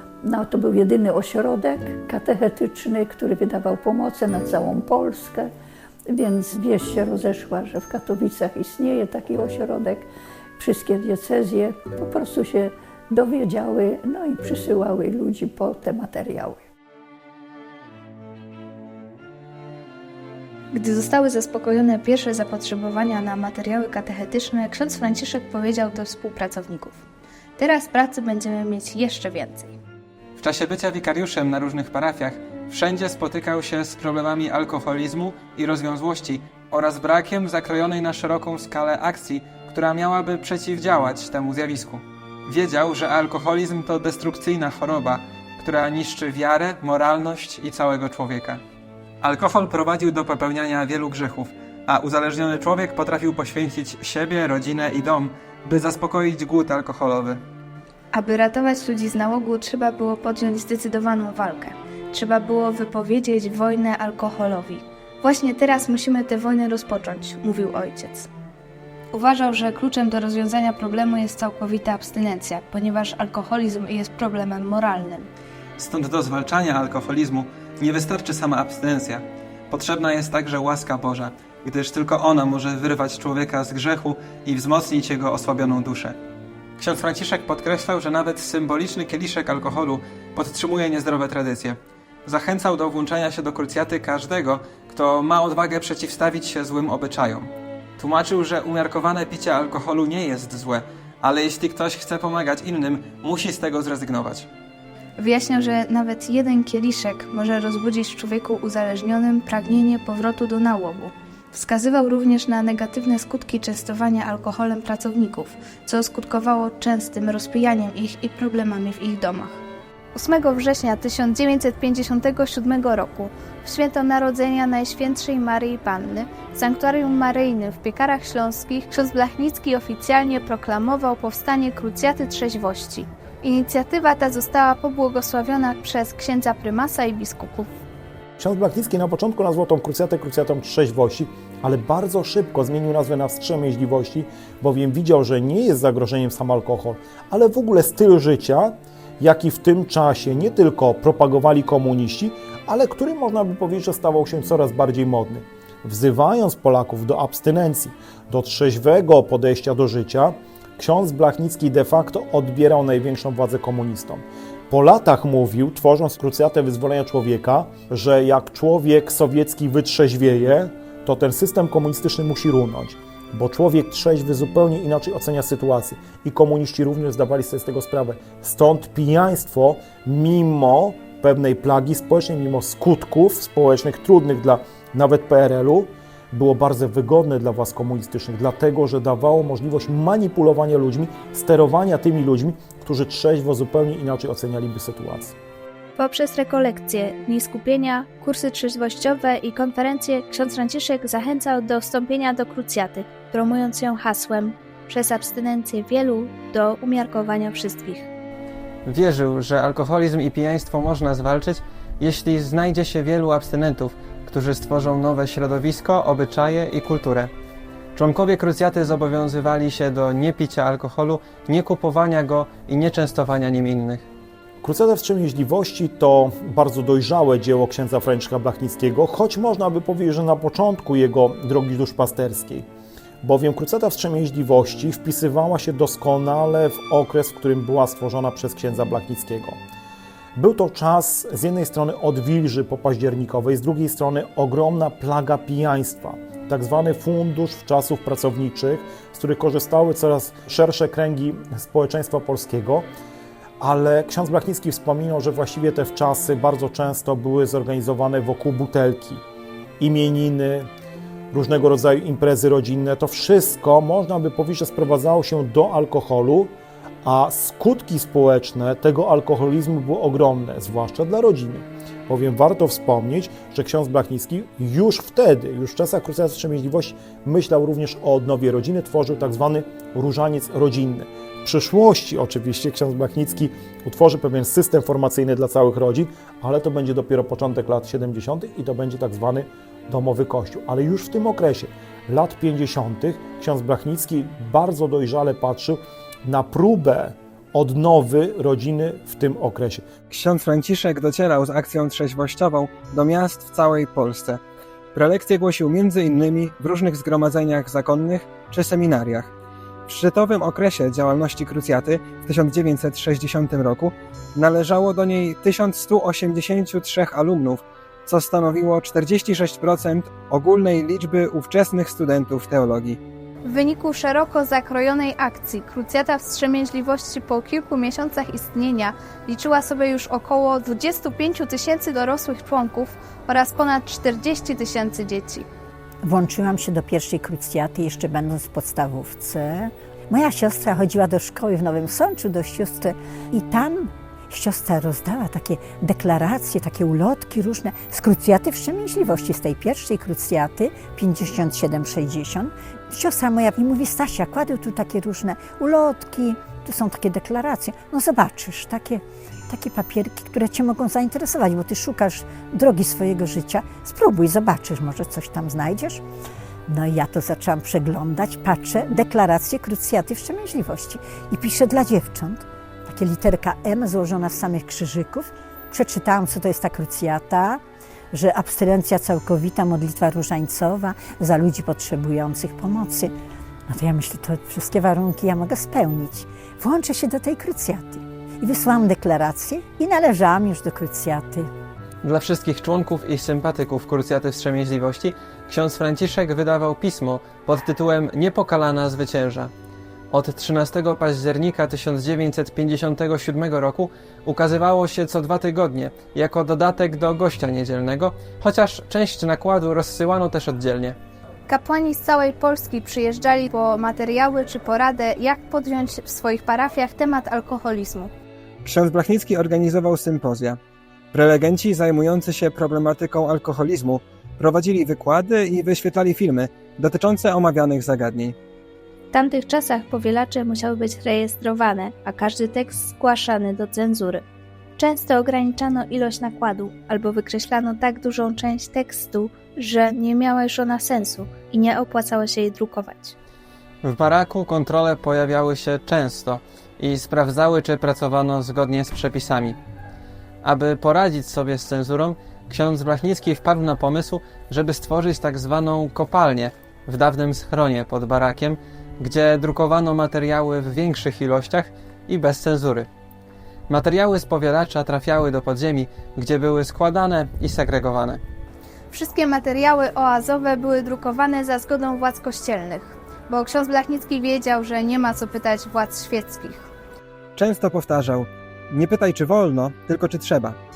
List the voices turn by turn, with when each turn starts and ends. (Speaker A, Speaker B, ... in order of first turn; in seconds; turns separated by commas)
Speaker A: 0.2-5.5, Speaker A: 6.1-16.6, Speaker B: 20.7-27.0, Speaker B: 27.6-29.8, Speaker C: 30.4-48.6, Speaker C: 49.2-57.4, Speaker B: 58.1-68.3, Speaker B: 69.1-75.3, Speaker C: 75.8-86.2, Speaker C: 86.8-104.5, Speaker B: 105.2-119.6, Speaker B: 120.1-137.7, Speaker D: 138.4-195.3, Speaker B: 196.0-208.1, Speaker C: 208.8-217.3, Speaker C: 217.9-224.1, Speaker D: 224.6-232.7, Speaker D: 233.2-239.6, Speaker D: 240.3-252.9, Speaker D: 253.6-259.2, Speaker D: 259.8-260.7, Speaker D: 261.3-299.9, Speaker C: 300.1-304.4, Speaker C: 304.9-309.3, Speaker C: 309.9-323.0, Speaker B: 323.4-335.5, Speaker E: 336.0-366.0, Speaker E: 366.7-383.1, Speaker E: 383.7-391.5, Speaker C: 392.0-399.5, Speaker C: 400.1-411.0, Speaker B: 411.5-418.1, Speaker C: 418.6-420.6, Speaker C: 421.1-428.4, Speaker B: 429.1-434.2, Speaker B: 434.8-443.1, Speaker C: 443.8-449.6, Speaker C: 450.4-462.9, Speaker C: 463.7-468.2, Speaker B: 468.9-476.7, Speaker C: 477.4-480.6